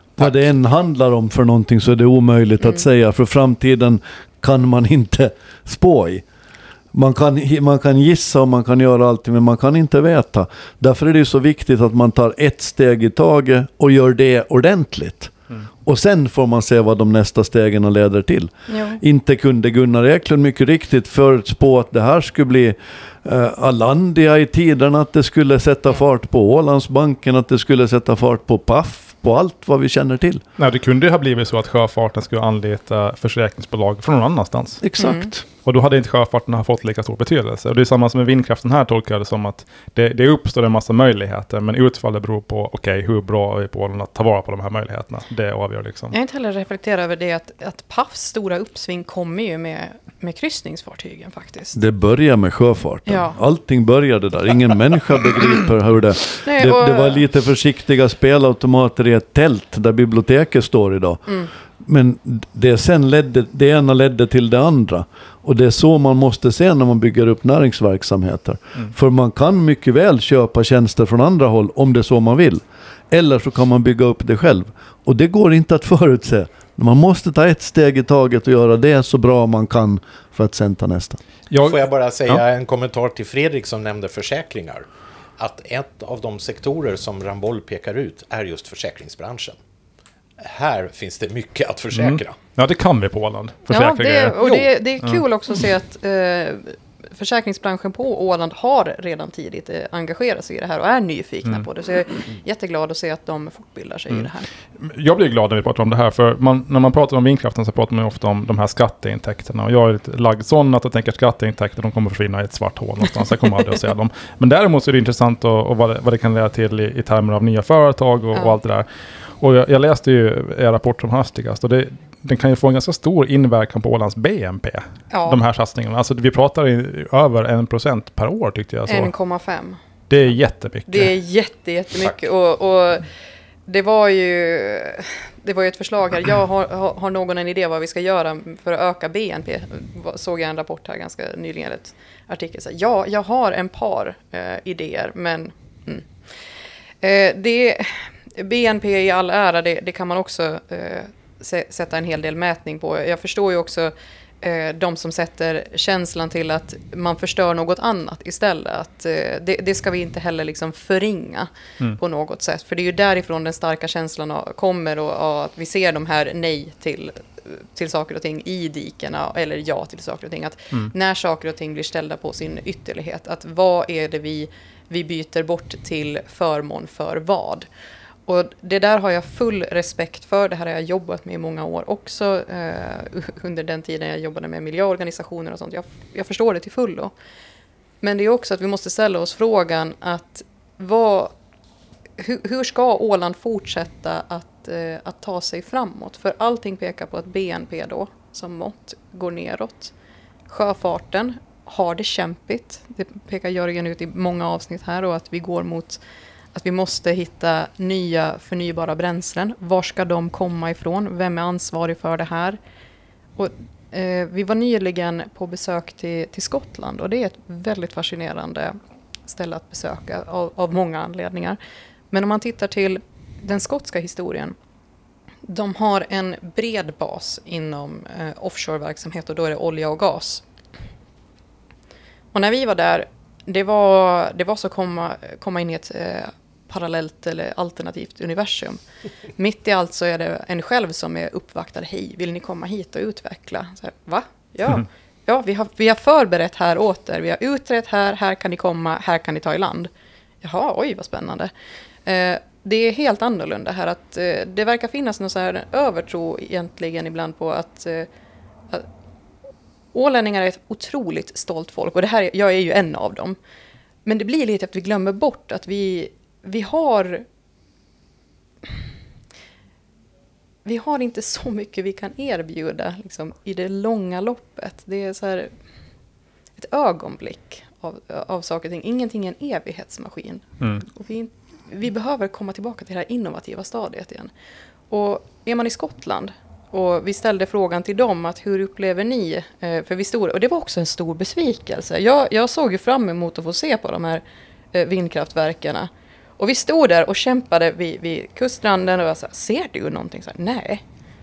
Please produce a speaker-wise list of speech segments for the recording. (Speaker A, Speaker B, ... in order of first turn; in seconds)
Speaker A: 0.2-6.2, 6.9-30.4, 34.8-35.4, 51.7-61.3, 61.8-81.2
Speaker B: 18.7-19.0, 35.0-35.3, 46.1-51.8, 53.0-53.4, 56.4-57.2, 93.7-104.5, 125.1-125.4, 128.9-129.8, 130.9-133.1, 133.7-146.1, 147.0-177.7, 178.3-187.1, 188.0-191.3, 192.2-199.9, 200.5-206.0, 206.5-212.6, 213.4-221.6, 222.1-224.6, 225.4-230.4, 232.3-238.8, 239.3-249.9, 250.4-251.5, 252.1-258.1, 259.9-263.4, 264.1-267.2, 270.6-275.5, 276.6-284.3, 284.9-294.2, 294.7-300.8
Speaker C: 30.6-34.8, 35.6-46.1, 81.5-82.4, 91.9-94.4, 104.8-118.8, 119.4-129.1, 130.1-131.1
Speaker D: 81.6-84.8, 85.4-89.6, 90.4-92.4